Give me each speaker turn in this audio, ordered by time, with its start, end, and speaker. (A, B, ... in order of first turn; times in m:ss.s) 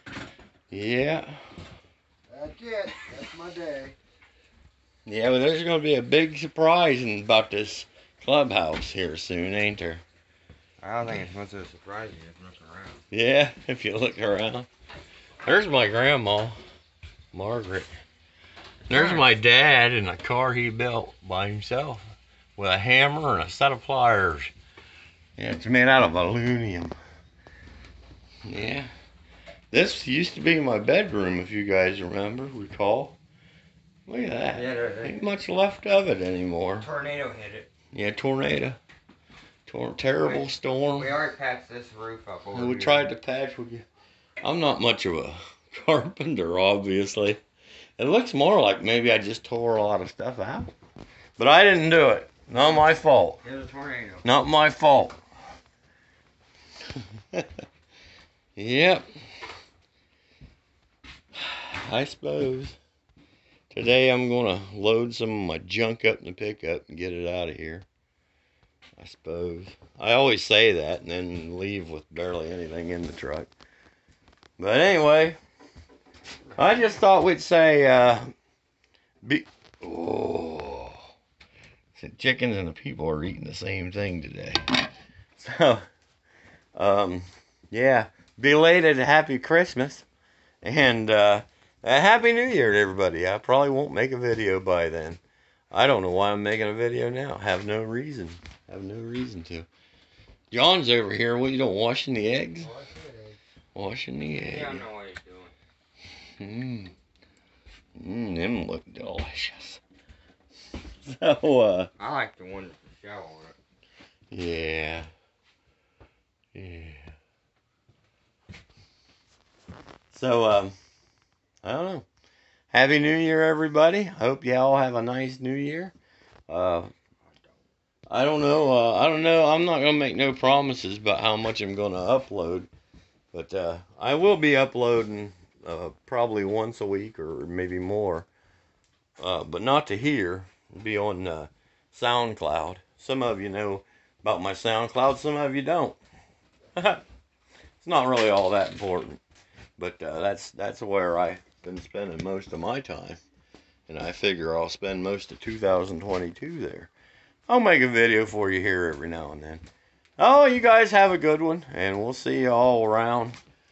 0:00.7-0:01.4 A
0:02.3-0:04.0 B
0:05.1-0:10.0 A
0:10.8-0:13.0 C
0:13.1-0:14.7 A
0:15.4-0:16.6 A
0:17.3-0:17.9 A
0:18.9-0:19.3 C
0:18.9-0:22.0 A
0:22.6-0:24.5 A
0:25.4-0:27.0 A
0:28.4-0:28.9 A
0:29.7-0:33.2 A
0:34.1-0:36.9 A
0:34.5-0:35.2 C
0:36.8-0:37.7 C
0:37.9-0:38.8 A
0:39.7-0:41.1 A
0:40.2-0:43.1 C
0:42.5-0:43.8 A
0:44.4-0:47.4 A
0:48.0-0:50.7 A
0:51.4-0:53.4 A
0:52.6-0:54.3 C
0:54.2-0:55.2 A
0:58.6-0:59.1 A
1:01.4-1:02.8 A
1:03.7-1:07.9 A
1:09.0-1:13.5 A
1:14.6-1:15.4 A
1:16.6-1:18.3 A
1:19.2-1:21.0 A
1:22.0-1:24.6 A
1:25.4-1:25.8 A
1:26.8-1:30.1 A
1:30.6-1:35.2 A
1:35.7-1:39.7 A
1:40.5-1:42.7 A
1:42.6-1:43.4 B
1:43.8-1:44.9 A
1:44.4-1:45.5 C
1:46.4-1:46.9 A
1:48.0-1:49.8 A
1:51.0-1:51.9 A
1:52.0-1:53.6 C
1:54.3-1:55.1 A
1:56.5-1:57.1 A
2:00.1-2:00.8 A
2:01.6-2:02.0 A
2:02.7-2:05.9 A
2:06.5-2:06.9 A
2:07.2-2:07.6 C
2:08.1-2:12.7 A
2:13.3-2:18.3 A
2:19.2-2:26.0 A
2:26.8-2:27.0 A
2:27.8-2:29.2 A
2:29.8-2:33.2 A
2:33.9-2:36.9 A
2:37.5-2:39.6 A
2:40.2-2:43.4 A